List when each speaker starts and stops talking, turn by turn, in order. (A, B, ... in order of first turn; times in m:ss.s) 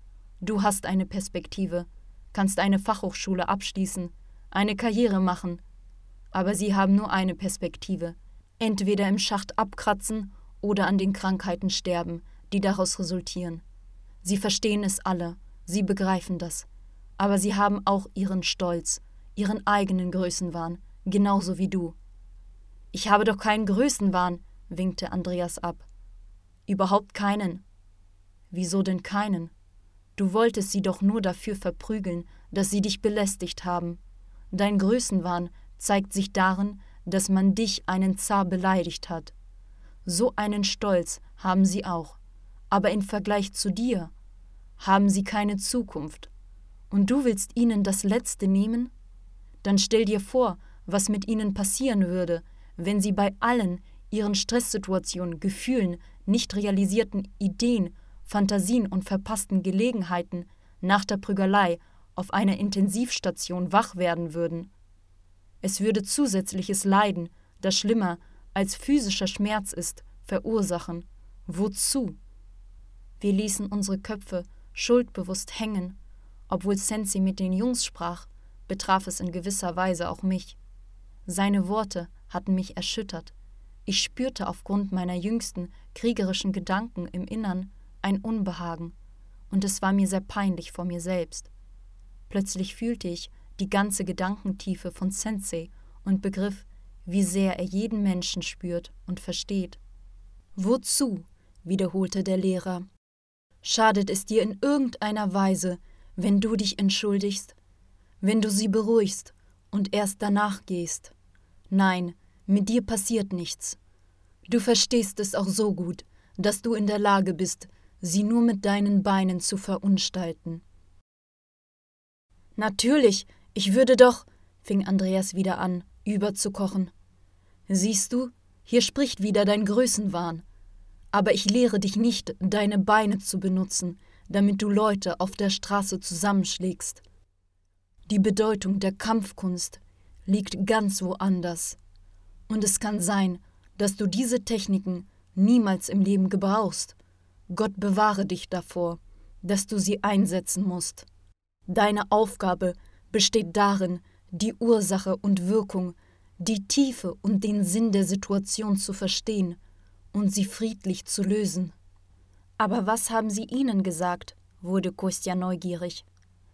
0:00.4-0:05.6 A
0:06.3-0:13.6 A
0:14.2-0:16.6 A
0:17.2-0:22.0 A
0:22.9-0:25.8 A
0:26.7-0:27.6 A
0:28.5-0:29.5 A
0:30.2-0:34.0 A
0:34.5-0:39.3 A
0:40.0-0:42.2 A
0:42.7-0:44.1 A
0:44.8-0:46.3 A
0:46.9-0:48.9 A
0:49.6-1:04.7 A
1:05.6-1:12.2 A
1:13.2-1:16.0 A
1:16.5-1:20.6 A
1:21.2-1:23.3 A
1:23.8-1:28.9 A
1:29.5-1:31.5 A
1:32.3-1:39.8 A
1:40.6-1:42.9 A
1:43.6-1:47.6 A
1:48.2-1:51.1 A
1:51.7-1:53.8 A
1:54.5-2:00.6 A
2:02.6-2:06.9 A
2:07.7-2:10.4 A
2:11.1-2:17.0 A
2:18.1-2:21.8 A
2:22.5-2:27.0 A
2:27.5-2:31.0 A
2:31.7-2:39.6 A
2:40.1-2:41.7 A
2:42.6-2:46.0 A